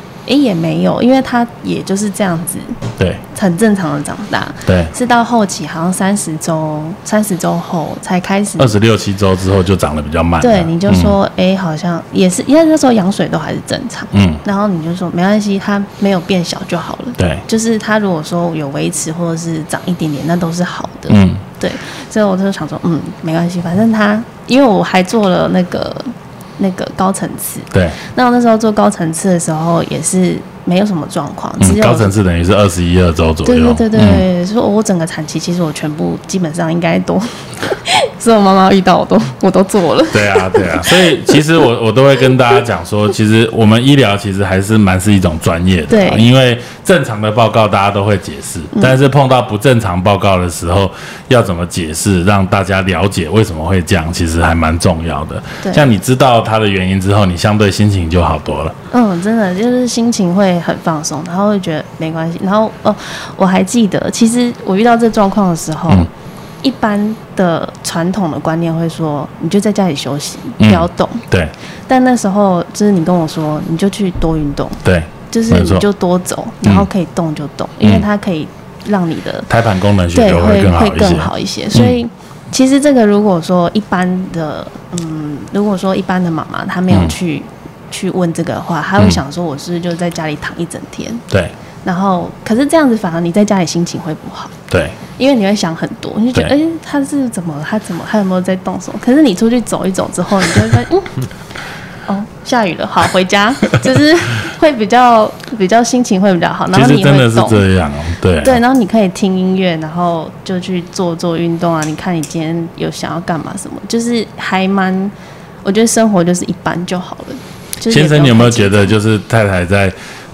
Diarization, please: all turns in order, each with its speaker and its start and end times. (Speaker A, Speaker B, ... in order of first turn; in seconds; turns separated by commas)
Speaker A: 0.3-2.8, Speaker B: 3.0-3.2, Speaker A: 3.3-8.8, Speaker B: 4.7-4.9, Speaker B: 8.6-11.2, Speaker A: 10.4-32.1, Speaker B: 14.1-14.4, Speaker B: 17.2-17.4, Speaker B: 21.1-21.4, Speaker B: 27.7-28.0, Speaker B: 31.6-34.2, Speaker A: 33.5-41.4, Speaker B: 40.1-58.8, Speaker A: 45.9-46.3, Speaker A: 48.7-49.0, Speaker A: 55.6-55.9, Speaker A: 58.9-66.1, Speaker A: 66.6-71.2, Speaker B: 70.6-71.5, Speaker A: 71.9-79.5, Speaker B: 74.8-75.8, Speaker B: 79.5-82.0, Speaker A: 80.1-91.2, Speaker A: 91.8-94.5, Speaker B: 94.7-95.0, Speaker A: 95.2-101.3, Speaker A: 102.1-107.6, Speaker B: 106.7-108.6, Speaker A: 108.4-115.1, Speaker A: 115.6-118.9, Speaker B: 117.9-120.0